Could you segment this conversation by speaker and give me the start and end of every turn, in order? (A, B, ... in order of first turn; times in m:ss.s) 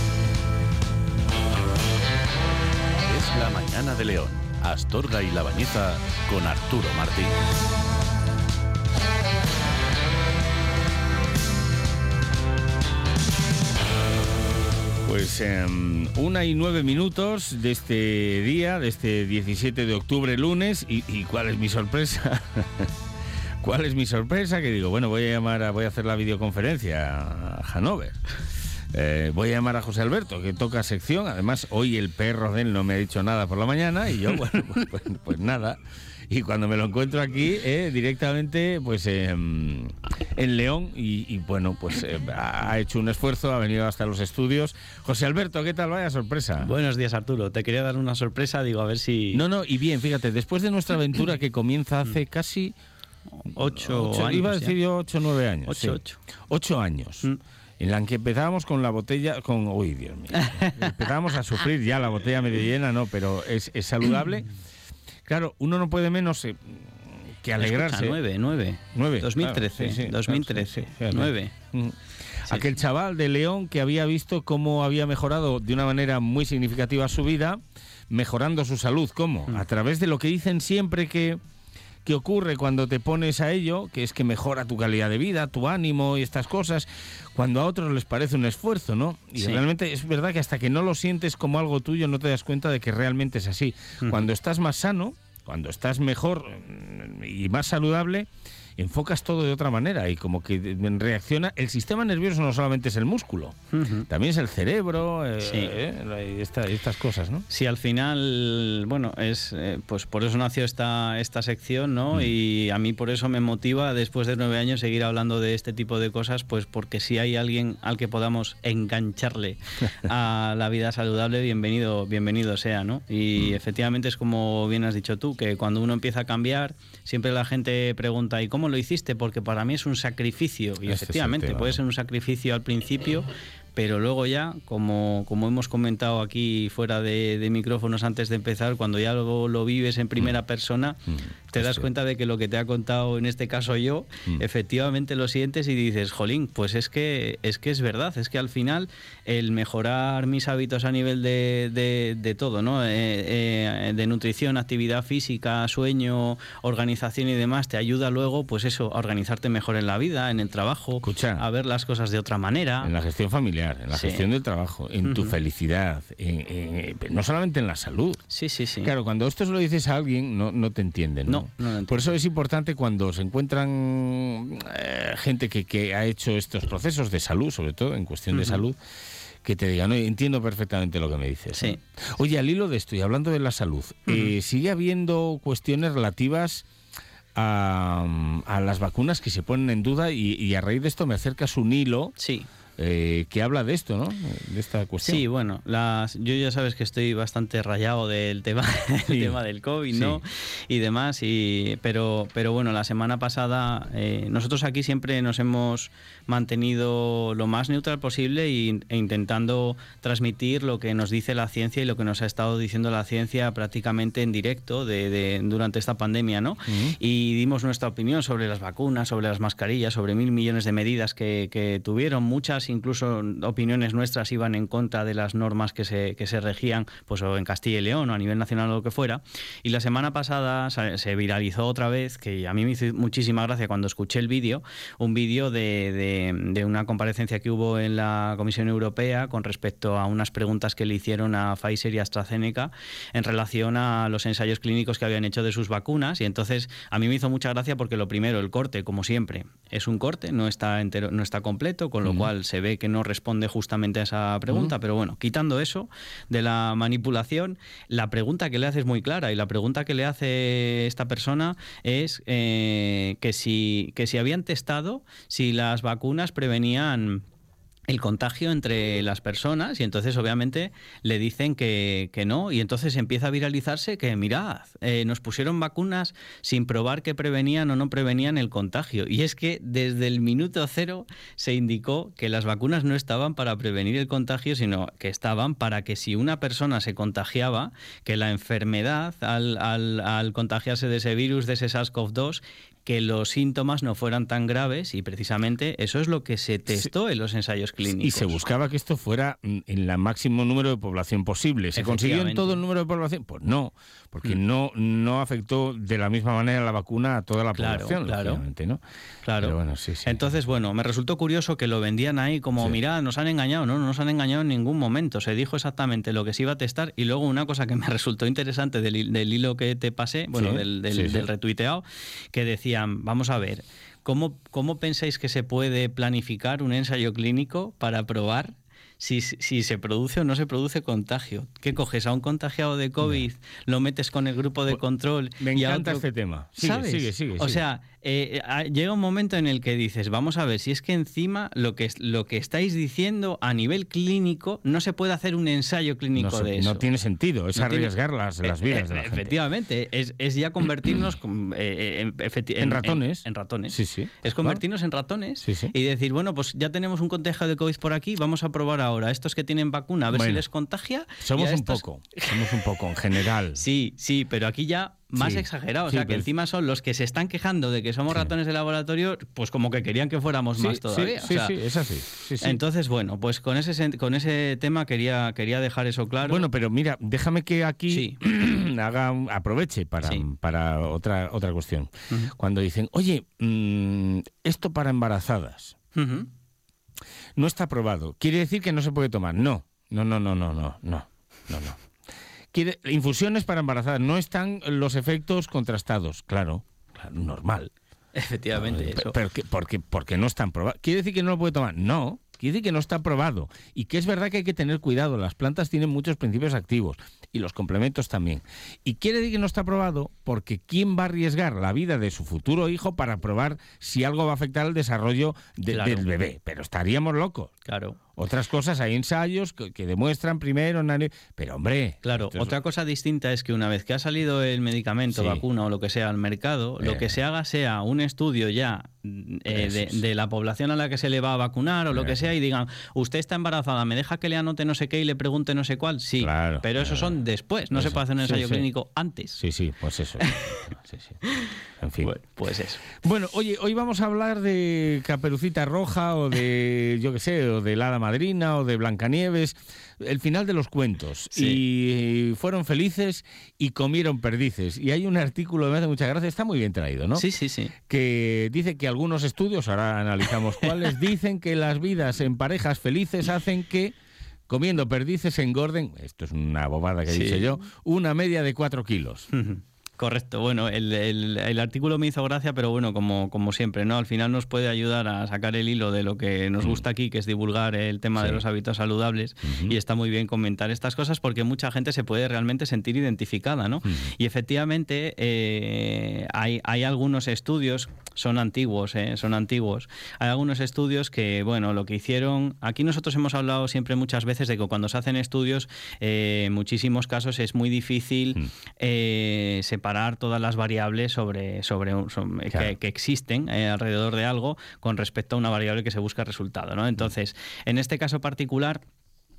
0:03.0-0:07.5 A
0:15.0-0:22.9 B
0:23.6-0:28.2 B
0:28.9-0:35.8 B
0:36.3-0:46.7 B
0:46.6-0:49.4 C
0:49.3-0:52.7 B
0:53.4-0:54.8 C
0:53.6-1:04.5 B
0:55.7-0:56.2 C
1:00.3-1:01.0 C
1:05.2-1:08.2 B
1:07.6-1:11.5 C
1:08.9-1:11.9 B
1:12.5-1:17.6 B
1:18.1-1:21.4 B
1:22.0-1:43.6 B
1:29.4-1:29.6 C
1:34.0-1:34.2 C
1:43.7-1:44.1 C
1:44.1-1:47.4 B
1:45.4-1:45.8 C
1:47.5-2:42.9 C
2:10.9-2:11.8 B
2:21.1-2:21.9 B
2:41.0-2:41.4 B
2:42.8-2:48.2 B
2:43.9-2:44.3 C
2:45.0-2:45.4 C
2:48.3-2:48.9 C
2:48.8-2:58.8 B
2:51.2-2:52.2 C
2:58.3-2:58.6 C
2:59.4-3:06.7 B
3:01.5-3:01.8 C
3:04.1-3:04.3 C
3:07.3-3:12.1 B
3:12.2-3:12.5 C
3:12.8-3:15.2 B
3:15.0-4:27.2 C
3:19.1-3:19.4 B
3:19.9-3:20.2 B
3:36.7-3:37.0 B
4:12.0-4:12.3 B
4:27.9-4:58.4 C
4:57.9-5:08.8 B
5:01.8-5:02.6 C
5:07.6-5:08.4 C
5:09.2-5:46.9 C
5:09.4-5:10.4 B
5:20.4-5:21.3 B
5:35.4-5:37.6 B
5:46.2-5:49.4 B
5:47.6-5:47.9 C
5:48.4-6:02.6 C
5:52.6-5:54.6 B
5:55.4-5:55.7 B
6:00.1-6:00.4 B
6:01.2-6:03.6 B
6:03.5-6:11.6 C
6:05.2-6:06.3 B
6:10.6-6:12.6 B
6:12.4-6:16.5 C
6:16.2-6:25.8 B
6:17.9-6:18.2 C
6:25.9-6:26.3 C
6:27.4-6:31.8 B
6:32.5-6:37.7 B
6:38.1-6:39.2 C
6:38.6-6:57.5 B
6:55.7-6:56.1 C
6:57.7-6:58.0 C
6:58.2-7:02.6 B
7:02.0-7:19.4 C
7:05.1-7:05.4 B
7:06.8-7:07.2 B
7:09.5-7:10.0 B
7:11.9-7:12.2 B
7:16.2-7:17.2 B
7:17.7-7:18.7 B
7:19.4-7:21.2 B
7:20.2-7:20.6 C
7:21.2-7:22.9 C
7:21.8-7:22.1 B
7:23.0-7:37.3 B
7:31.3-7:31.6 C
7:37.2-7:37.8 C
7:37.9-7:43.9 B
7:44.5-7:49.3 B
7:47.1-7:47.6 C
7:49.3-8:28.8 C
7:58.2-7:58.4 B
7:59.4-7:59.8 B